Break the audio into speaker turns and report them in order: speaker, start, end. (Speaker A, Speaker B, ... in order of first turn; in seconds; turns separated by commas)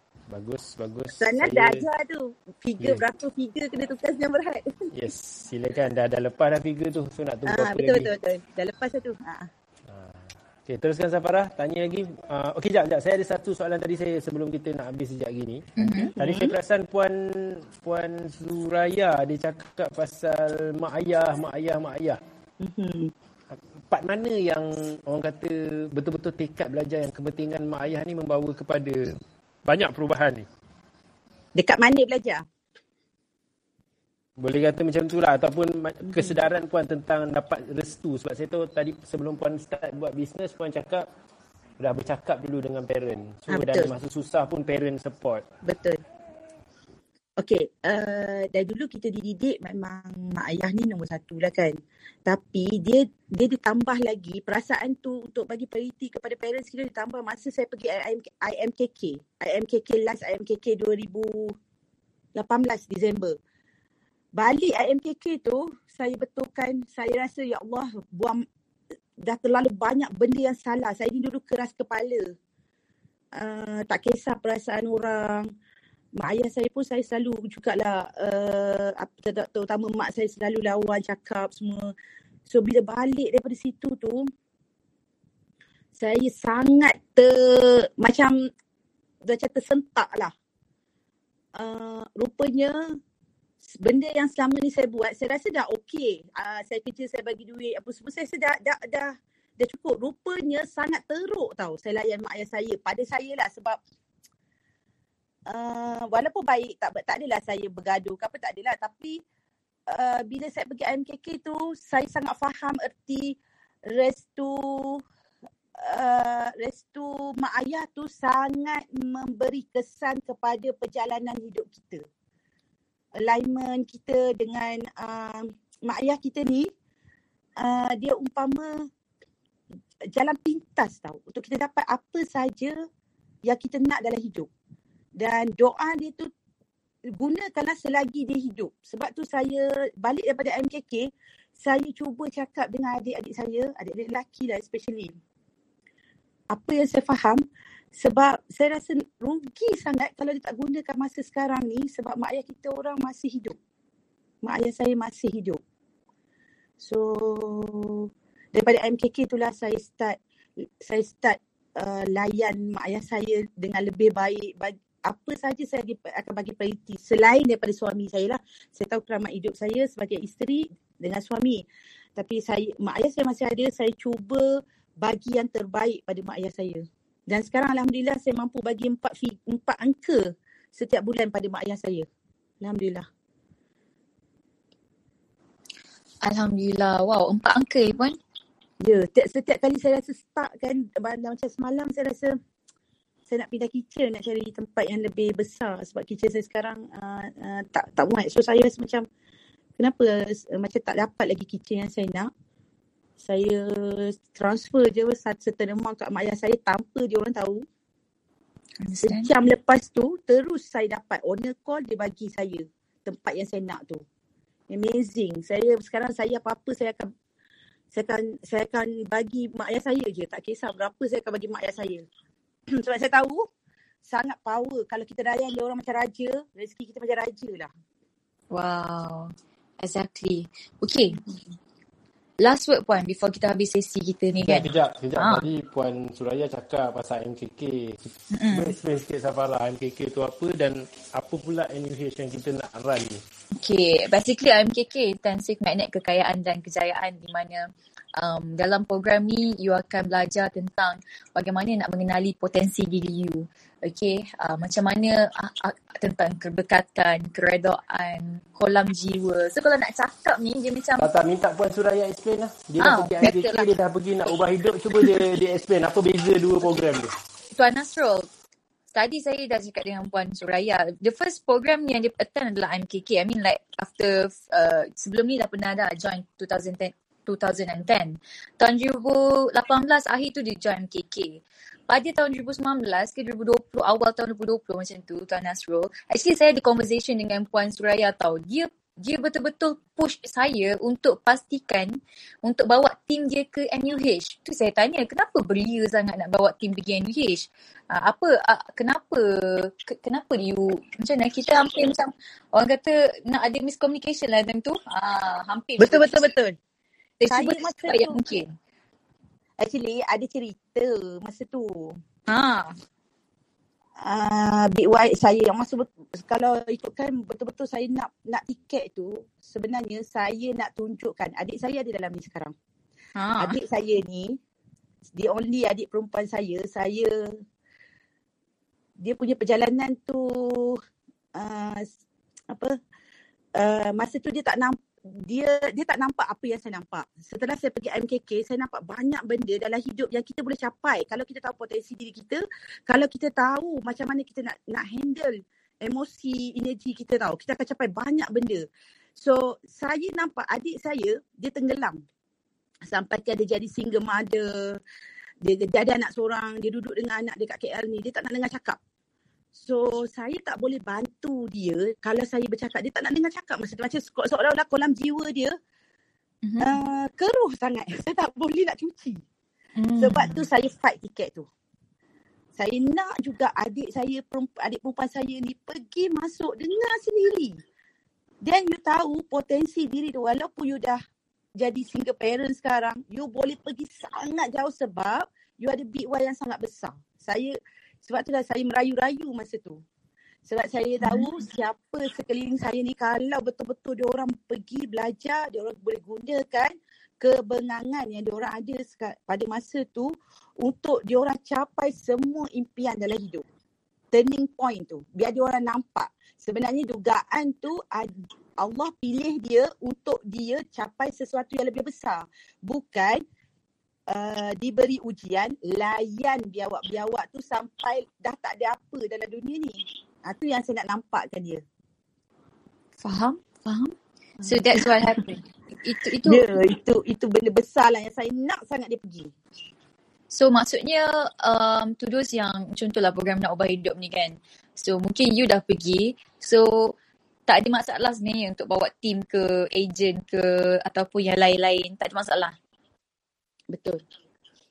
Speaker A: 0.3-1.9, Speaker B: 1.2-4.9, Speaker A: 2.8-3.0, Speaker A: 4.9-8.1, Speaker B: 7.5-9.5, Speaker A: 9.9-22.2, Speaker C: 15.8-16.1, Speaker B: 15.9-16.5, Speaker B: 22.6-23.1, Speaker A: 23.5-29.1, Speaker A: 29.6-30.4, Speaker B: 31.6-32.4, Speaker A: 34.4-41.0, Speaker B: 36.1-36.4, Speaker A: 41.8-45.5, Speaker B: 43.5-43.9, Speaker B: 45.6-46.0, Speaker B: 47.4-61.6, Speaker B: 62.4-63.4, Speaker B: 64.3-68.5, Speaker B: 69.2-72.3, Speaker B: 73.4-75.5, Speaker B: 76.2-81.9, Speaker B: 82.5-84.3, Speaker B: 86.0-88.4, Speaker B: 89.2-90.3, Speaker B: 91.6-92.8, Speaker B: 93.7-103.8, Speaker B: 105.5-109.2, Speaker B: 109.9-113.4, Speaker B: 113.9-115.0, Speaker B: 115.8-122.0, Speaker B: 123.2-126.7, Speaker B: 127.6-128.9, Speaker B: 130.1-132.8, Speaker B: 133.4-134.5, Speaker B: 135.2-136.3, Speaker B: 137.1-145.2, Speaker B: 146.5-147.4, Speaker B: 147.9-153.6, Speaker B: 154.4-155.6, Speaker B: 156.8-160.2, Speaker B: 160.8-171.7, Speaker B: 172.2-182.1, Speaker B: 182.6-183.1, Speaker C: 186.2-188.2, Speaker B: 188.8-192.4, Speaker B: 193.3-199.1, Speaker B: 199.8-202.3, Speaker B: 203.2-207.7, Speaker C: 208.8-209.3, Speaker B: 209.0-214.0, Speaker B: 214.7-217.1, Speaker B: 217.9-222.1, Speaker B: 222.8-223.4, Speaker B: 224.1-227.7, Speaker C: 228.5-231.2, Speaker C: 232.4-235.5, Speaker A: 234.4-243.2, Speaker C: 238.3-238.7, Speaker C: 243.6-261.1, Speaker A: 261.0-267.1, Speaker C: 262.8-263.7, Speaker C: 267.5-268.3, Speaker C: 268.9-306.2, Speaker B: 305.8-306.6, Speaker C: 307.2-308.5, Speaker B: 307.3-308.2, Speaker B: 309.6-312.0, Speaker C: 312.3-312.7, Speaker B: 314.0-322.5, Speaker C: 323.2-323.6, Speaker B: 323.4-324.4, Speaker B: 325.1-327.4, Speaker B: 329.0-330.8, Speaker B: 331.4-331.9, Speaker B: 333.6-348.6, Speaker B: 349.2-352.0, Speaker B: 352.9-354.8, Speaker B: 355.4-358.8, Speaker B: 359.6-365.6, Speaker C: 366.4-366.8, Speaker B: 366.6-369.2, Speaker C: 369.8-370.4, Speaker B: 370.0-371.5, Speaker B: 372.6-377.6, Speaker B: 378.4-381.0, Speaker B: 381.6-389.8, Speaker B: 390.5-403.4, Speaker C: 391.0-391.3, Speaker B: 404.1-413.2, Speaker B: 414.1-421.6, Speaker C: 423.0-426.5, Speaker B: 424.4-424.9, Speaker B: 426.2-429.3, Speaker C: 430.3-436.9, Speaker C: 437.5-442.5, Speaker B: 443.7-444.0